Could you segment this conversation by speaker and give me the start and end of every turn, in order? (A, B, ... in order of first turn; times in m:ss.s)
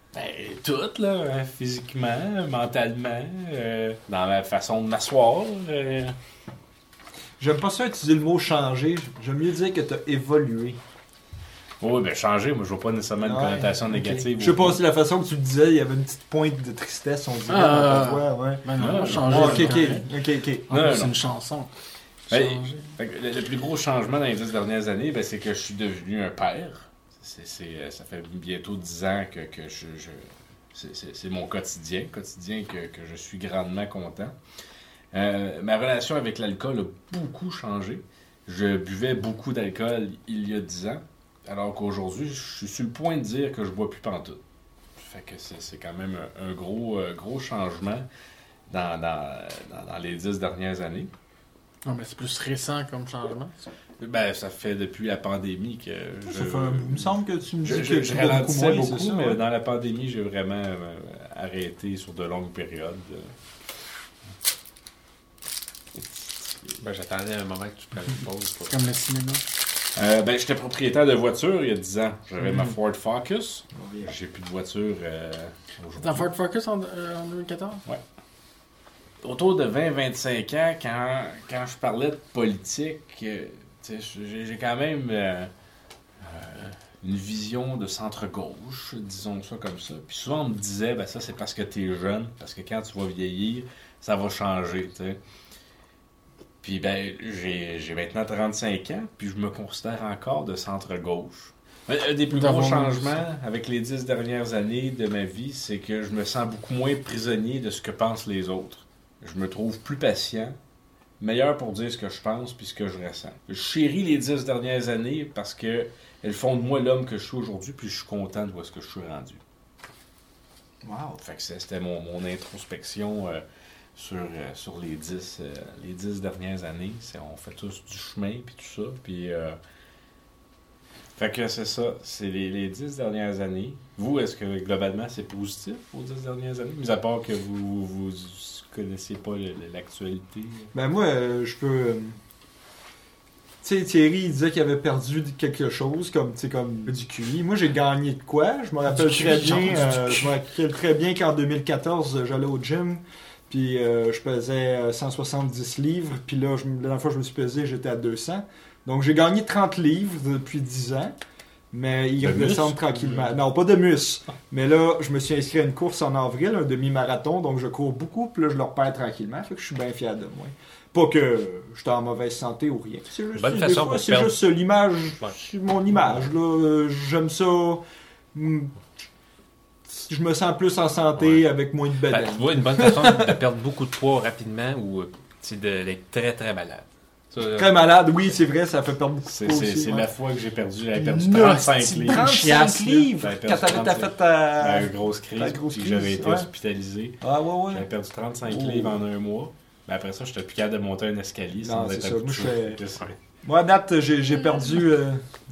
0:00.1-0:06.2 A
0:07.4-0:10.8 B
0:11.8-0:14.8 A
0:13.2-0:20.7 B
0:17.5-0:20.0 C
0:18.8-0:20.0 A
0:20.7-0:21.3 A
0:20.7-0:21.7 C
0:22.3-0:22.9 C
0:22.3-0:34.4 A
0:35.1-0:44.4 A
0:45.0-0:48.1 A
0:48.7-0:51.1 A
0:51.8-0:53.6 C
0:54.0-1:03.3 A
0:56.3-0:59.4 B
1:06.8-1:08.8 D
1:08.6-1:09.4 C
1:10.0-1:16.3 A
1:13.7-1:14.1 B
1:16.0-1:17.8 C
1:19.2-1:25.5 A
1:26.2-1:35.2 A
1:36.6-1:50.6 A
1:42.3-1:43.2 C
1:51.2-1:59.4 A
2:00.8-2:01.2 B
2:01.2-2:03.4 A
2:04.0-2:09.6 A
2:11.2-2:20.7 A
2:20.7-2:22.2 B
2:23.6-2:41.2 B
2:28.9-2:30.3 C
2:41.7-2:57.8 B
2:42.2-2:43.3 A
2:53.4-2:54.4 D
2:58.3-2:58.8 B
2:59.9-3:03.4 B
3:01.2-3:01.5 D
3:02.1-3:07.8 D
3:07.6-3:10.1 B
3:09.3-3:12.5 A
3:11.0-3:13.1 C
3:11.9-3:16.5 B
3:13.2-3:17.2 A
3:17.2-3:17.9 B
3:17.7-3:23.2 A
3:18.4-3:19.0 B
3:21.6-3:22.8 B
3:23.4-3:25.2 B